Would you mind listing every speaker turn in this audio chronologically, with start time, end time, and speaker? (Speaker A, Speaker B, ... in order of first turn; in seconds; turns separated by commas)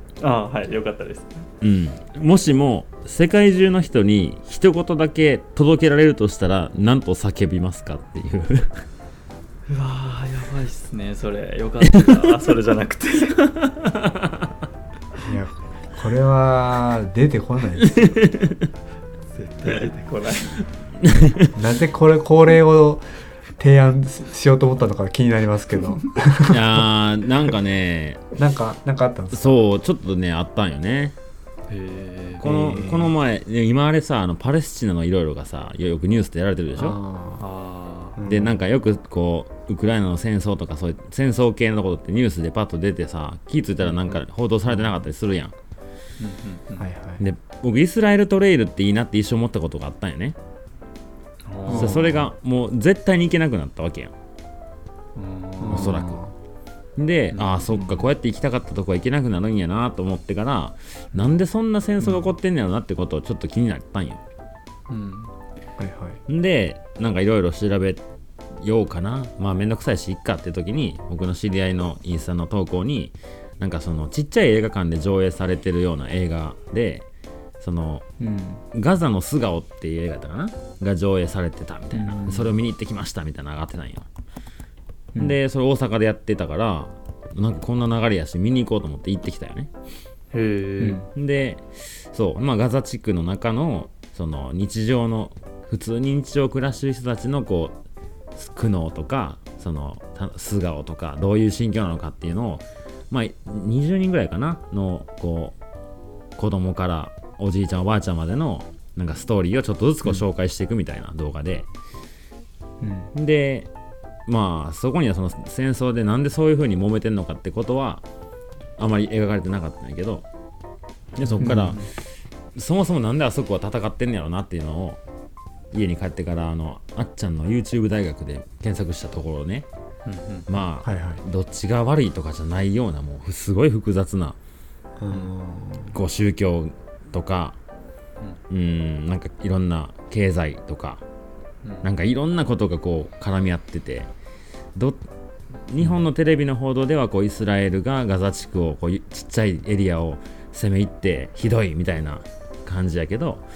Speaker A: 0.2-1.5, Speaker B: 1.6-8.8, Speaker A: 9.7-13.5, Speaker B: 13.6-14.4, Speaker C: 15.2-18.2, Speaker B: 17.8-18.7, Speaker A: 19.3-20.6, Speaker B: 21.0-21.6, Speaker C: 21.5-26.9, Speaker B: 26.4-28.2, Speaker C: 28.4-29.6, Speaker B: 29.3-31.1, Speaker A: 31.7-32.5, Speaker B: 32.4-37.0, Speaker C: 32.4-33.1, Speaker C: 36.8-37.4, Speaker A: 37.4-38.2, Speaker C: 38.2-38.6, Speaker B: 38.3-45.5, Speaker A: 43.8-44.2, Speaker A: 46.2-46.9, Speaker C: 46.8-47.2, Speaker B: 47.2-50.4, Speaker A: 51.4-52.1, Speaker C: 51.7-52.3, Speaker B: 51.7-54.1, Speaker A: 55.1-56.0, Speaker C: 55.6-56.3, Speaker B: 55.7-56.2, Speaker B: 57.0-64.2, Speaker A: 57.3-58.1, Speaker A: 64.9-65.3, Speaker C: 65.8-66.2, Speaker B: 66.3-68.0, Speaker B: 68.6-77.0, Speaker B: 77.6-78.0, Speaker C: 78.2-78.6, Speaker B: 78.7-84.1, Speaker C: 81.9-82.5, Speaker B: 85.2-89.7, Speaker A: 90.3-91.1, Speaker B: 91.1-97.8, Speaker B: 98.3-105.5, Speaker B: 106.4-111.7, Speaker C: 112.8-113.1, Speaker B: 113.1-113.7, Speaker B: 114.3-118.0, Speaker B: 118.8-120.2, Speaker A: 121.2-121.9, Speaker B: 121.2-121.9, Speaker C: 121.3-121.9, Speaker B: 122.5-125.0, Speaker B: 125.7-129.7, Speaker A: 130.1-130.5, Speaker B: 130.5-134.4, Speaker C: 130.8-131.2, Speaker C: 135.0-136.0, Speaker B: 135.9-137.6, Speaker B: 138.5-141.0, Speaker B: 141.8-144.1, Speaker B: 144.7-145.0, Speaker B: 145.7-153.4